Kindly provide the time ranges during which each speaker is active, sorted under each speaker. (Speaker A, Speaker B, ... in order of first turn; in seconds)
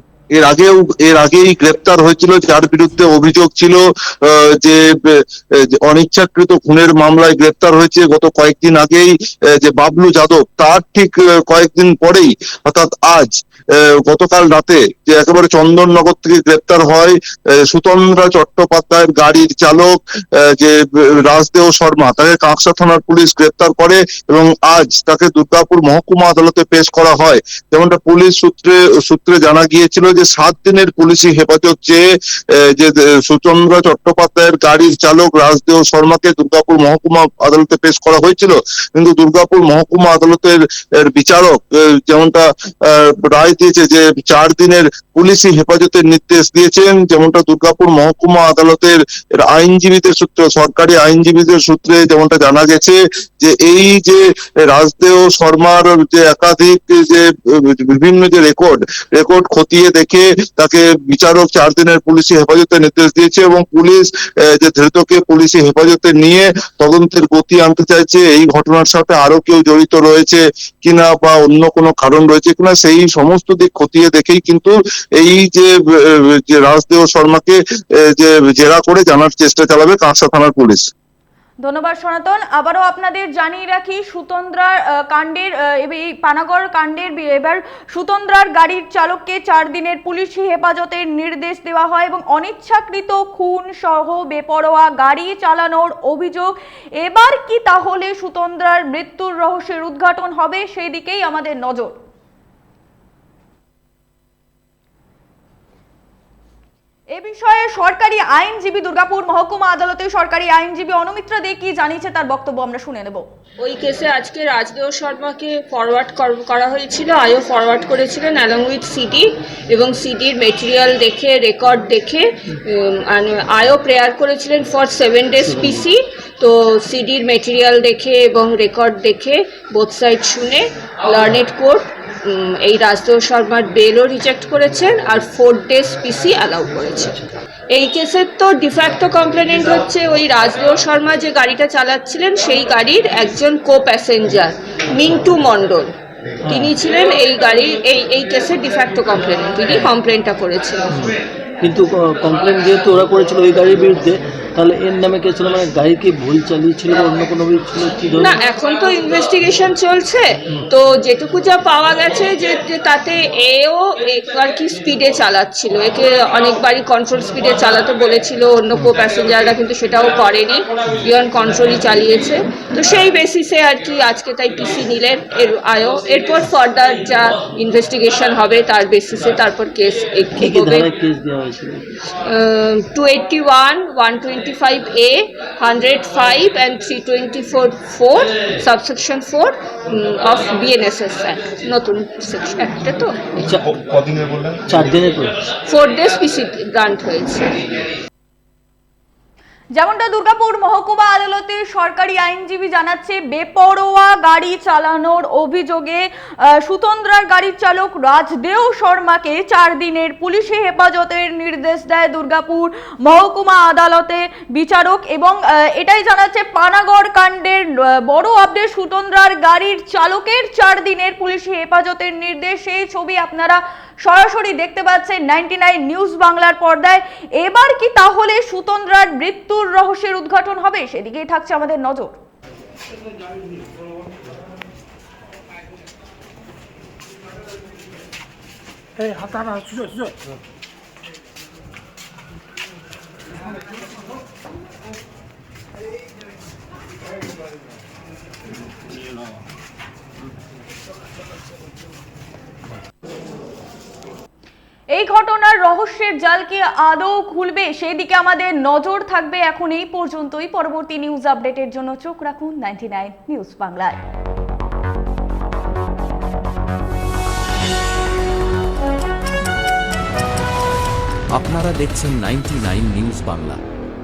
Speaker A: 0.3-80.9
Speaker B: 81.6-102.0, 107.2-113.2, 199.8-232.2, 254.9-264.0
Speaker C: 113.6-137.2, 137.7-145.9, 146.5-150.9, 158.2-180.9, 182.3-193.4, 195.7-197.6
Speaker D: 125.4-125.9, 146.4-146.7, 150.9-158.4, 180.4-181.8, 193.3-193.7, 194.7-195.4
Speaker E: 271.4-273.6